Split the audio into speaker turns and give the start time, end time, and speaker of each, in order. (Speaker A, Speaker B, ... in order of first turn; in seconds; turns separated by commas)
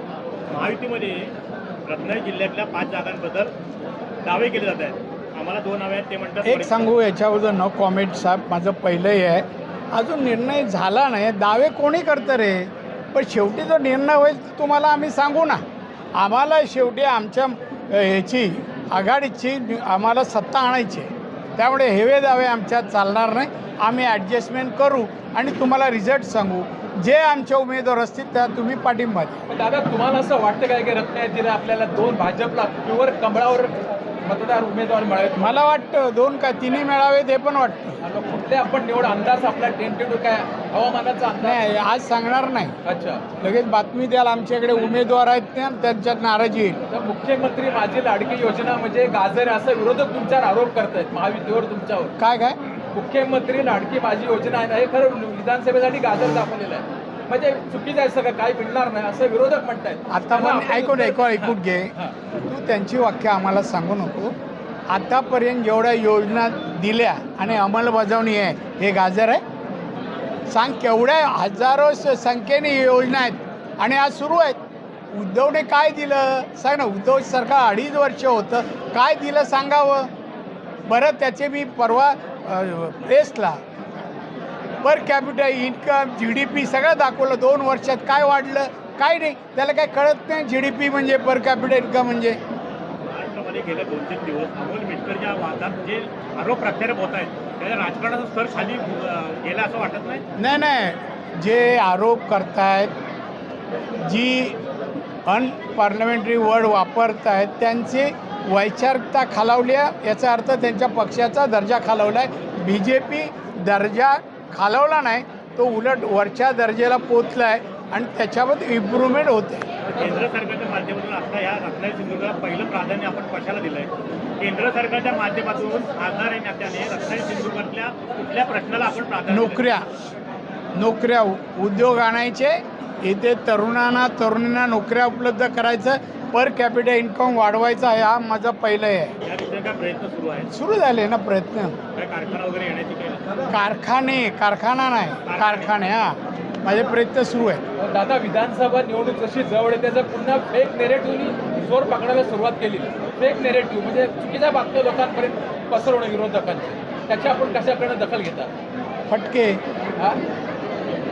Speaker A: 0.5-1.3, Speaker A: 1.9-3.5, Speaker A: 4.2-6.9, Speaker B: 6.4-15.6, Speaker B: 16.1-29.4, Speaker C: 29.5-35.6, Speaker B: 35.4-38.0, Speaker C: 38.0-41.7, Speaker B: 41.4-42.7, Speaker C: 42.8-43.3, Speaker B: 43.4-46.8, Speaker C: 46.9-52.1, Speaker B: 52.2-52.6, Speaker C: 52.9-62.1, Speaker B: 60.1-64.3, Speaker B: 64.9-69.4, Speaker B: 70.5-74.6, Speaker B: 75.1-80.1, Speaker B: 80.9-83.6, Speaker B: 84.8-92.4, Speaker A: 93.1-100.2, Speaker B: 100.4-102.9, Speaker B: 104.0-104.6, Speaker B: 105.2-119.6, Speaker A: 120.0-129.8, Speaker B: 129.3-129.8, Speaker B: 130.7-139.1, Speaker A: 139.2-140.5, Speaker B: 140.5-141.8, Speaker A: 141.9-143.2, Speaker B: 143.5-147.6, Speaker A: 145.3-145.8, Speaker C: 147.8-158.5, Speaker B: 159.1-159.6